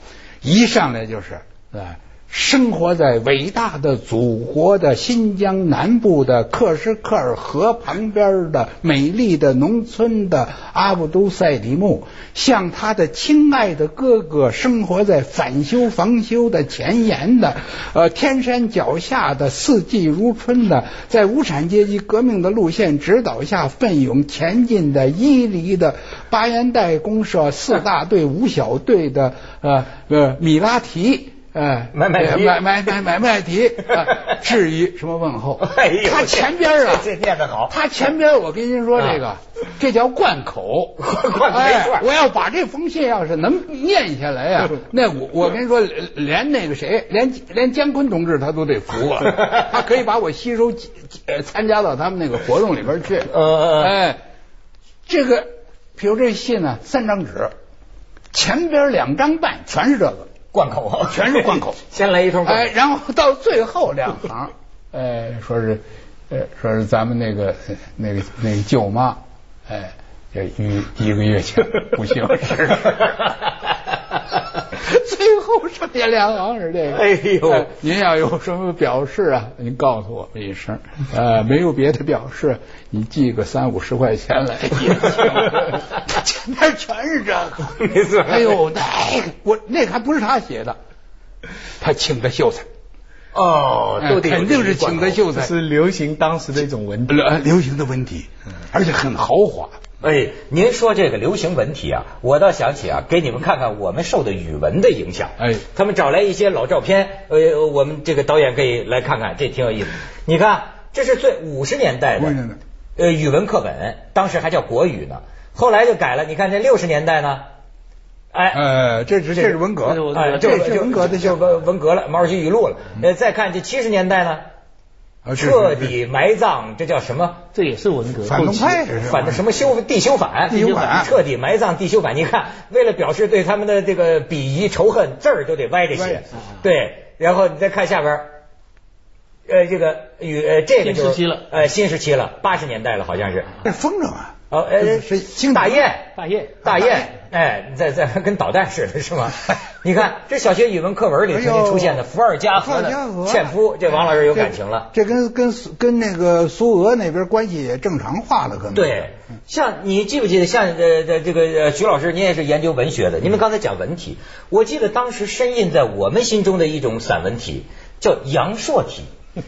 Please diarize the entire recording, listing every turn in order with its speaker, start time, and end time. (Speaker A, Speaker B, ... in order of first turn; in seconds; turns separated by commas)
Speaker A: 0.4-37.1, Speaker B: 31.9-32.7, Speaker B: 34.1-34.4, Speaker B: 35.6-37.7, Speaker A: 37.7-54.2, Speaker B: 41.0-42.1, Speaker B: 53.3-54.0, Speaker A: 55.1-57.5, Speaker A: 58.3-60.3, Speaker B: 60.5-62.7, Speaker A: 61.1-61.8, Speaker A: 62.4-73.2, Speaker A: 74.7-90.8, Speaker B: 76.9-77.7, Speaker B: 87.8-88.6, Speaker A: 91.8-92.7, Speaker B: 93.3-95.2, Speaker A: 94.0-95.5, Speaker C: 95.3-97.2, Speaker A: 97.1-99.8, Speaker B: 100.0-112.4, Speaker A: 112.2-112.6, Speaker B: 113.0-117.5, Speaker B: 118.3-118.6, Speaker A: 118.5-121.4, Speaker C: 119.4-120.9, Speaker B: 120.1-124.4, Speaker A: 125.2-125.9, Speaker B: 125.3-127.4, Speaker C: 127.5-128.9, Speaker A: 128.3-129.4, Speaker B: 129.0-138.4, Speaker A: 130.5-131.1, Speaker A: 135.9-136.2, Speaker B: 139.5-143.6, Speaker C: 140.8-141.4, Speaker A: 143.6-145.9, Speaker B: 144.5-154.9, Speaker C: 146.2-146.6, Speaker A: 146.7-147.1, Speaker A: 151.3-152.0, Speaker A: 152.6-153.6, Speaker A: 154.3-159.1, Speaker B: 158.7-169.1